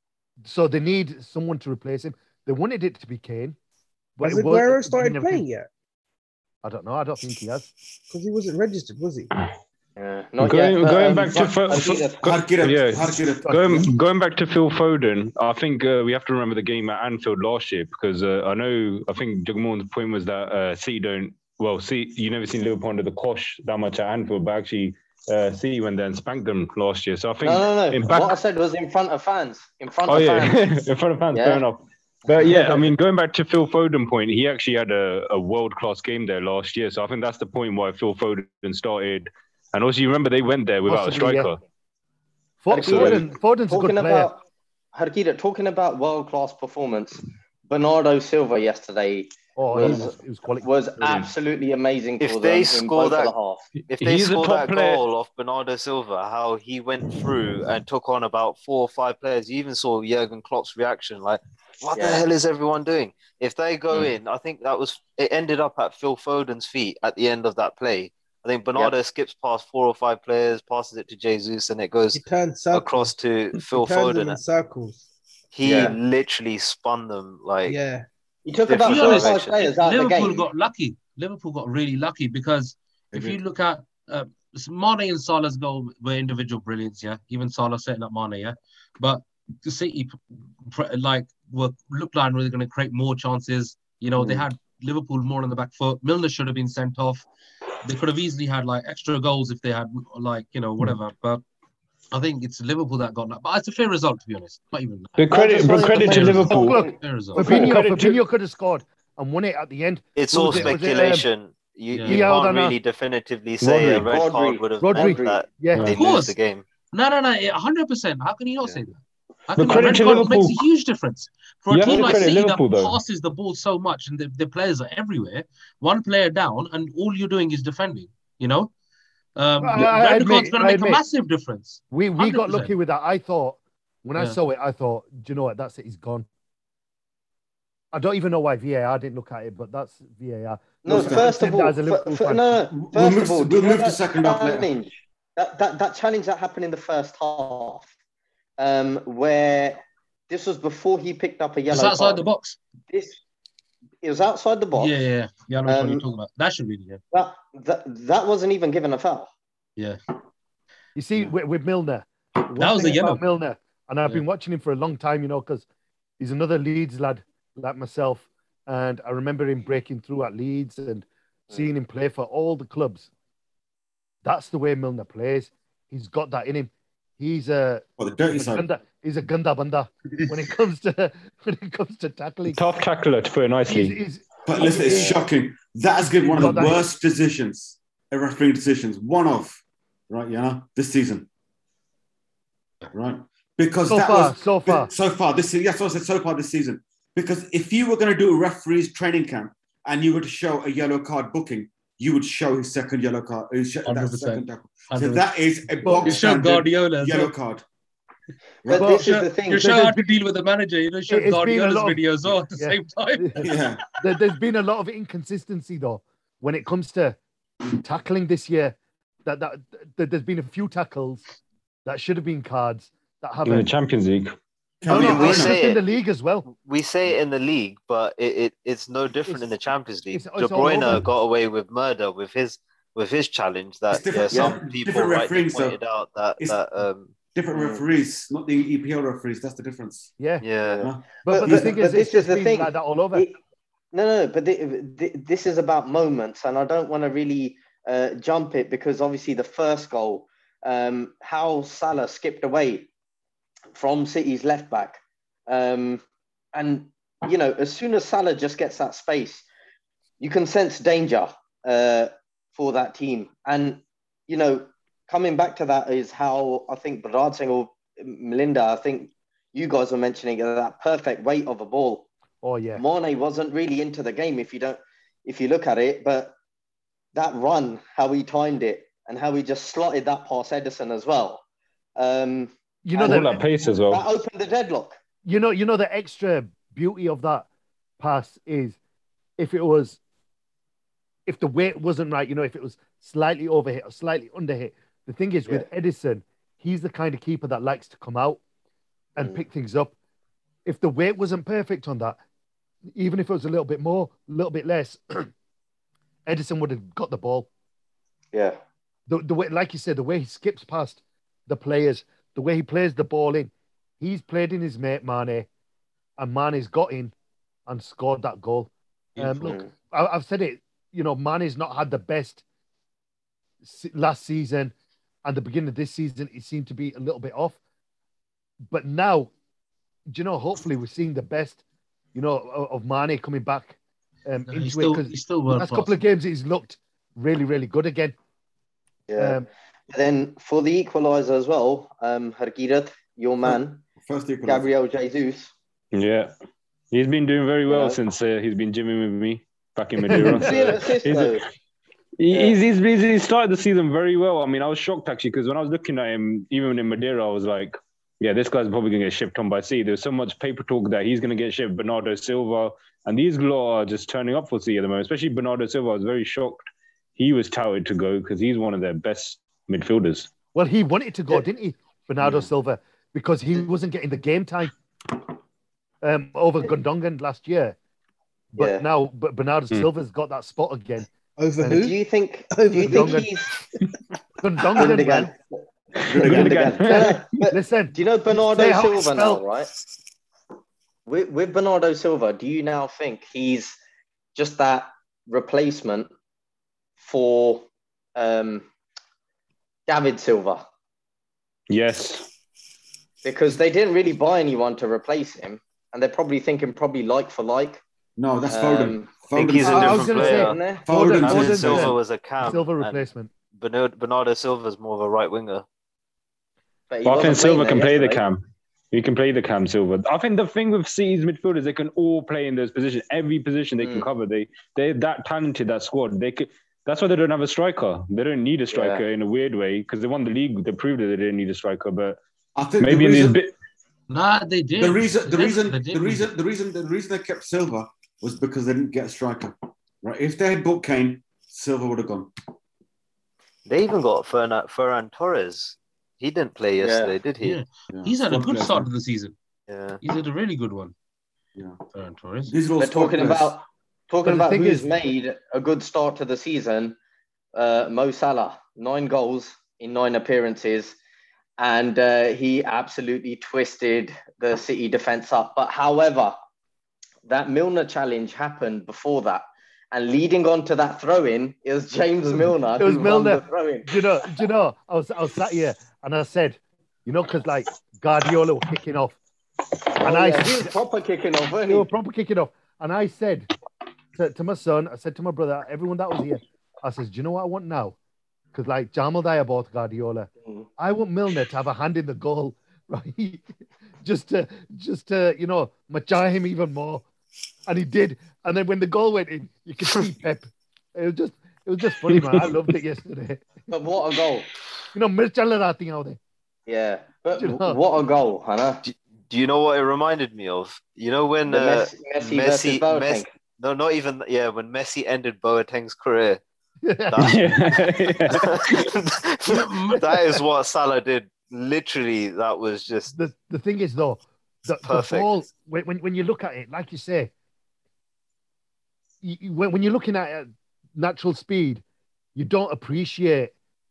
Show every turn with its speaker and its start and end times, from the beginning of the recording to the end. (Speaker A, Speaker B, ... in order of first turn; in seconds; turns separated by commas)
Speaker A: 0.5-3.6, Speaker A: 4.2-5.4, Speaker B: 4.2-5.7, Speaker A: 6.6-7.7, Speaker B: 8.1-9.3, Speaker C: 10.0-12.4, Speaker D: 10.4-28.4, Speaker E: 12.2-13.9, Speaker C: 27.4-30.7, Speaker D: 30.1-41.6, Speaker C: 31.3-31.6, Speaker C: 32.3-32.9, Speaker A: 40.9-41.5, Speaker A: 42.6-44.3, Speaker C: 42.7-44.4, Speaker D: 42.8-43.2, Speaker C: 44.9-53.7, Speaker A: 49.6-50.7, Speaker F: 52.2-53.3, Speaker D: 53.8-55.0, Speaker F: 53.9-74.4, Speaker C: 62.0-62.3, Speaker B: 72.1-73.1, Speaker B: 73.7-75.1, Speaker F: 75.5-77.8, Speaker C: 75.6-76.0, Speaker B: 77.7-78.1, Speaker C: 78.5-80.5, Speaker F: 78.7-79.6, Speaker G: 78.8-97.3, Speaker E: 83.1-83.4, Speaker E: 94.2-94.5, Speaker G: 97.8-101.4, Speaker G: 102.1-105.3, Speaker D: 105.2-106.8, Speaker C: 105.3-107.7, Speaker G: 105.8-107.5, Speaker A: 106.5-111.3, Speaker D: 107.4-108.2, Speaker F: 110.2-116.7, Speaker G: 111.9-112.3, Speaker A: 112.1-112.8, Speaker D: 113.6-114.1, Speaker C: 113.8-115.4, Speaker A: 114.8-115.9, Speaker G: 115.9-116.4, Speaker G: 116.9-128.7, Speaker D: 119.5-120.7, Speaker D: 121.7-123.0, Speaker G: 129.4-132.7, Speaker A: 129.6-131.0, Speaker A: 131.9-136.3, Speaker A: 137.9-142.4, Speaker C: 140.8-147.9, Speaker E: 140.9-141.2, Speaker E: 142.7-144.7, Speaker C: 148.6-152.2, Speaker G: 151.7-152.6, Speaker C: 152.9-153.2, Speaker C: 154.0-154.9, Speaker G: 154.8-157.0, Speaker C: 155.7-156.1, Speaker C: 157.1-159.3, Speaker A: 161.0-165.7, Speaker G: 162.6-163.2, Speaker A: 166.2-173.1, Speaker A: 174.2-182.6, Speaker E: 178.0-178.7, Speaker D: 182.5-184.0, Speaker A: 183.7-185.2, Speaker E: 184.5-191.3, Speaker C: 184.8-185.2, Speaker A: 186.3-186.8, Speaker E: 192.9-207.6, Speaker A: 193.9-194.9, Speaker G: 203.8-205.3, Speaker A: 205.8-206.2, Speaker G: 206.0-207.3, Speaker E: 208.6-209.0, Speaker C: 208.7-209.7, Speaker A: 208.8-210.1, Speaker G: 208.9-213.6, Speaker A: 211.1-212.0, Speaker A: 212.6-213.4, Speaker E: 213.4-213.8, Speaker A: 214.0-217.2, Speaker A: 217.8-221.2, Speaker A: 221.9-223.7, Speaker D: 223.4-224.4, Speaker E: 224.8-225.6, Speaker A: 224.9-226.5, Speaker F: 224.9-225.8, Speaker F: 226.4-237.2, Speaker A: 230.1-231.1, Speaker E: 233.9-235.8, Speaker C: 234.3-234.6, Speaker E: 237.3-240.1, Speaker C: 237.5-237.8, Speaker A: 240.2-240.4, Speaker F: 240.4-240.9, Speaker E: 240.8-241.7, Speaker A: 241.2-243.3, Speaker C: 241.3-243.3, Speaker C: 243.9-252.9, Speaker C: 253.7-256.0, Speaker C: 256.5-259.4, Speaker C: 260.2-272.1, Speaker A: 272.4-272.8, Speaker C: 272.8-276.3, Speaker C: 277.1-281.4, Speaker C: 282.0-285.0, Speaker A: 282.9-283.3, Speaker D: 283.0-284.1, Speaker A: 285.2-287.5, Speaker A: 288.0-288.8, Speaker A: 289.4-290.0, Speaker A: 291.3-298.4, Speaker A: 299.2-299.9, Speaker C: 299.2-299.4, Speaker A: 300.6-302.2, Speaker A: 302.9-305.3, Speaker A: 306.3-307.5, Speaker C: 308.3-308.6, Speaker A: 309.1-315.5, Speaker A: 316.2-317.1, Speaker A: 317.7-322.4, Speaker C: 319.4-319.7, Speaker A: 323.6-324.7, Speaker A: 325.2-327.6, Speaker A: 328.7-329.3, Speaker A: 330.1-331.6, Speaker A: 332.1-338.2, Speaker G: 334.5-335.9, Speaker C: 339.1-343.8, Speaker A: 339.2-339.4, Speaker E: 343.4-344.7, Speaker C: 344.4-345.5, Speaker D: 345.9-346.3, Speaker D: 346.9-351.4, Speaker C: 347.7-348.0, Speaker A: 350.1-350.5, Speaker C: 350.1-351.4, Speaker D: 352.2-370.3, Speaker C: 352.3-352.6, Speaker A: 370.5-374.7, Speaker A: 376.0-377.8, Speaker A: 378.6-381.1, Speaker C: 378.6-378.9, Speaker B: 381.4-382.0, Speaker A: 381.6-381.9, Speaker C: 381.7-383.6, Speaker B: 382.5-383.3, Speaker A: 382.9-383.3, Speaker A: 384.4-385.3, Speaker C: 384.7-389.7, Speaker D: 386.0-387.4, Speaker A: 386.3-389.4, Speaker C: 391.1-393.8, Speaker C: 394.4-396.1, Speaker C: 397.0-398.7, Speaker C: 399.9-400.6, Speaker D: 401.7-402.3, Speaker C: 403.2-407.8, Speaker E: 408.2-410.3, Speaker C: 408.5-411.2, Speaker F: 409.4-415.6, Speaker A: 409.7-410.5, Speaker E: 410.9-411.9, Speaker A: 411.2-413.3, Speaker C: 416.9-418.2, Speaker D: 417.0-432.2, Speaker C: 423.8-424.1, Speaker C: 428.7-429.1, Speaker E: 432.6-433.4, Speaker D: 432.8-433.5, Speaker G: 434.1-436.3, Speaker E: 434.8-442.3, Speaker F: 443.7-447.6, Speaker C: 446.8-447.1, Speaker G: 447.4-449.4, Speaker E: 447.9-448.9, Speaker F: 449.7-450.0, Speaker G: 450.0-450.9, Speaker G: 451.9-452.6, Speaker E: 452.5-453.6, Speaker C: 452.8-457.0, Speaker A: 454.2-454.9, Speaker C: 457.5-461.0, Speaker C: 461.6-466.4, Speaker C: 467.3-473.9, Speaker A: 472.8-479.2, Speaker C: 480.0-481.9, Speaker A: 480.0-480.8, Speaker A: 481.7-483.5, Speaker A: 484.2-488.0, Speaker A: 488.5-493.4, Speaker A: 494.0-497.1, Speaker A: 497.7-503.5, Speaker C: 503.7-504.5, Speaker A: 504.9-506.2, Speaker C: 506.7-508.8, Speaker A: 507.4-507.8, Speaker F: 508.9-516.4, Speaker C: 511.5-513.3, Speaker A: 516.8-517.4, Speaker F: 517.1-523.1, Speaker D: 517.2-518.7, Speaker G: 519.5-520.2, Speaker A: 523.1-527.3, Speaker F: 524.8-525.3, Speaker A: 529.2-531.8, Speaker A: 532.4-533.5